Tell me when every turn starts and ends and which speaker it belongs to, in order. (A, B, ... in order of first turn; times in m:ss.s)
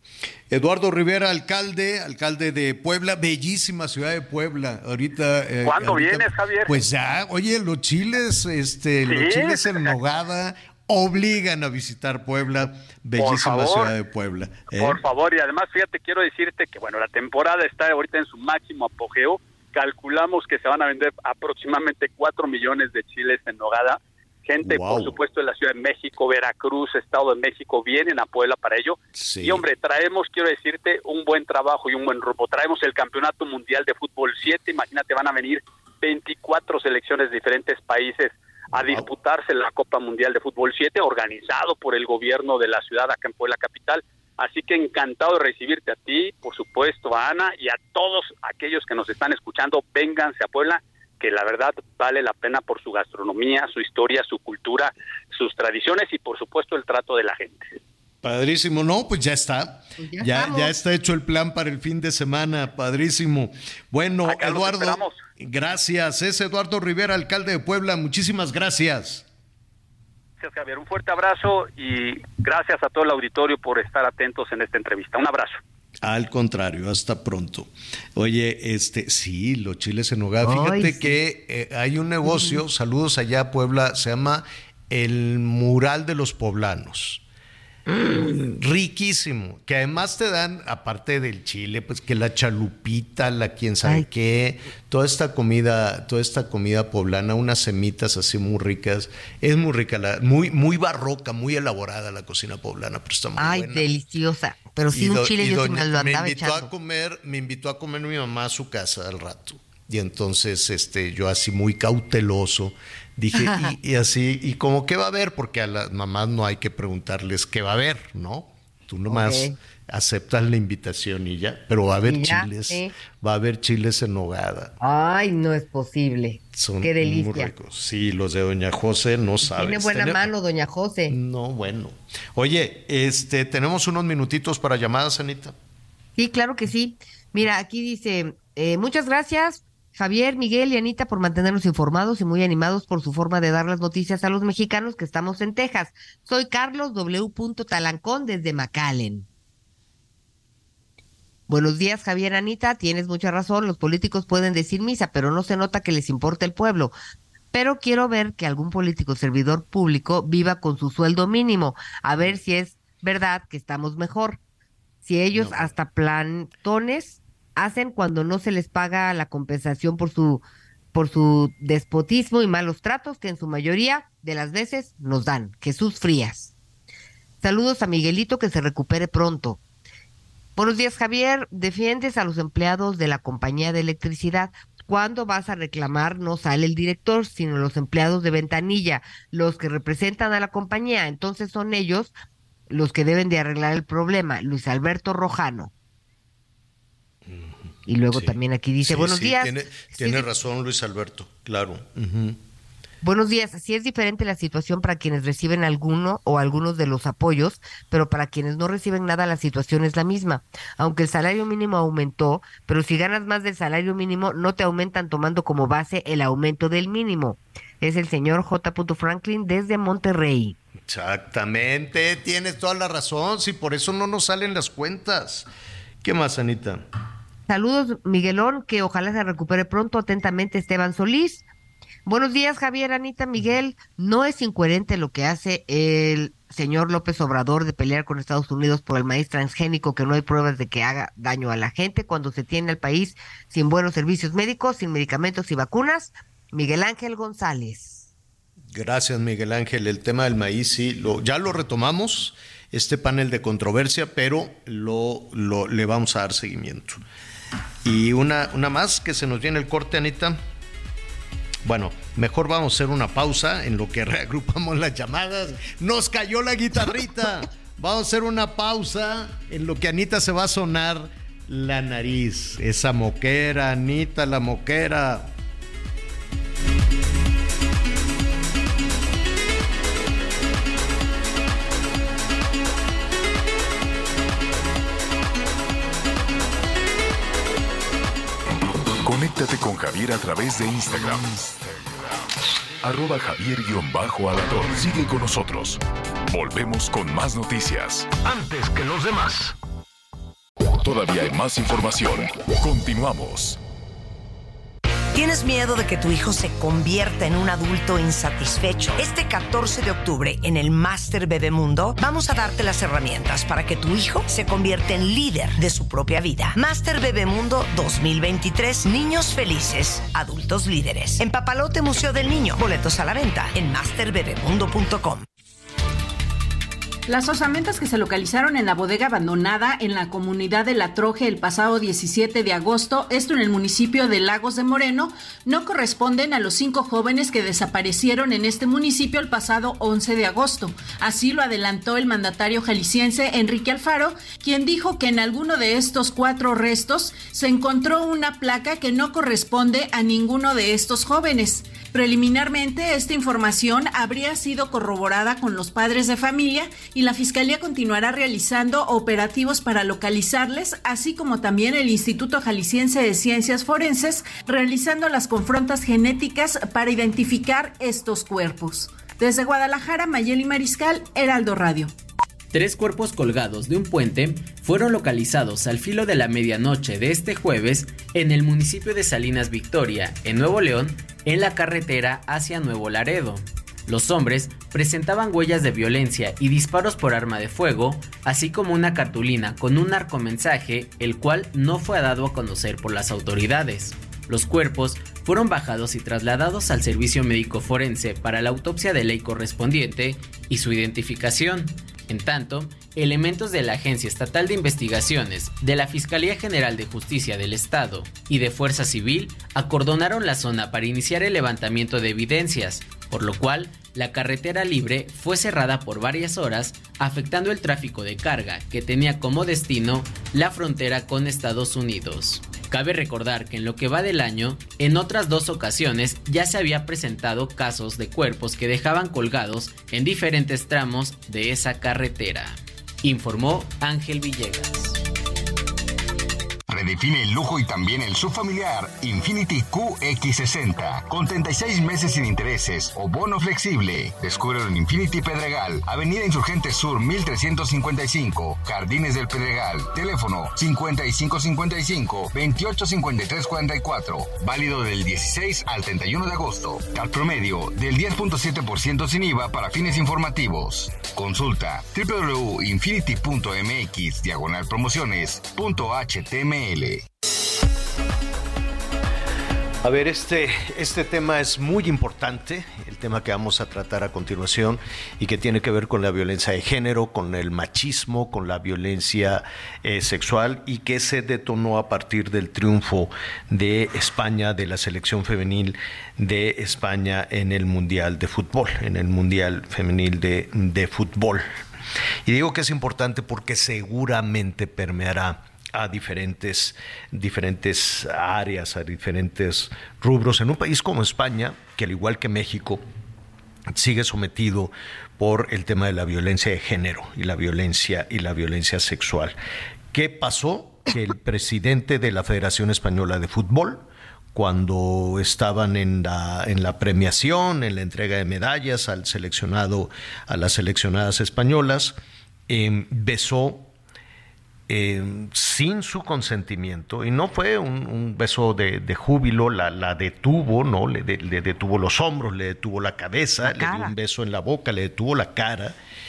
0:00.5-0:15.0 A
0:05.6-0:06.8 B
0:09.0-0:09.9 B
0:13.2-0:13.9 B
0:14.7-0:57.8 B
0:24.6-0:25.2 A
0:29.1-0:29.6 A
0:38.7-0:39.0 A
0:58.2-1:09.2 A
1:00.0-1:00.7 C
1:04.2-1:05.2 B
1:10.4-1:15.6 B
1:16.0-1:27.2 A
1:20.4-1:21.2 C
1:22.3-1:22.6 C
1:27.9-1:43.8 A
1:43.4-1:46.7 C
1:44.9-2:04.7 A
1:53.3-1:53.7 C
1:59.1-1:59.5 C
2:02.0-2:02.9 C
2:04.8-2:07.5 C
2:06.5-2:10.3 A
2:09.4-2:11.2 C
2:11.1-2:15.5 A
2:16.2-2:29.3 C
2:31.5-2:36.9 C
2:37.5-2:44.4 C
2:45.0-2:50.4 C
2:45.3-2:45.7 A
2:50.9-2:56.5 C
2:57.4-2:59.6 C
3:00.6-3:12.1 C
3:12.7-3:15.7 C
3:17.2-3:17.5 A
3:17.8-3:20.3 C
3:18.1-3:22.4 A
3:23.0-3:40.6 C
3:40.9-3:45.5 A
3:46.0-3:46.8 A
3:47.5-3:51.4 C
3:52.0-4:08.1 C
4:08.7-4:17.0 A
4:17.8-4:20.4 A
4:21.6-4:35.3 A
4:49.0-4:51.6 D
4:52.8-4:58.1 D
4:58.2-4:59.5 A
5:00.7-5:03.6 D
5:05.1-5:25.2 E
5:27.1-6:11.9 F
6:12.5-7:15.0 G
7:16.7-7:47.0 H
7:49.8-8:11.4 A
8:12.2-8:22.8 A
8:23.7-8:29.4 A
8:29.9-8:42.0 A
8:42.5-8:43.7 A
8:44.7-8:55.7 A
8:53.4-8:53.9 C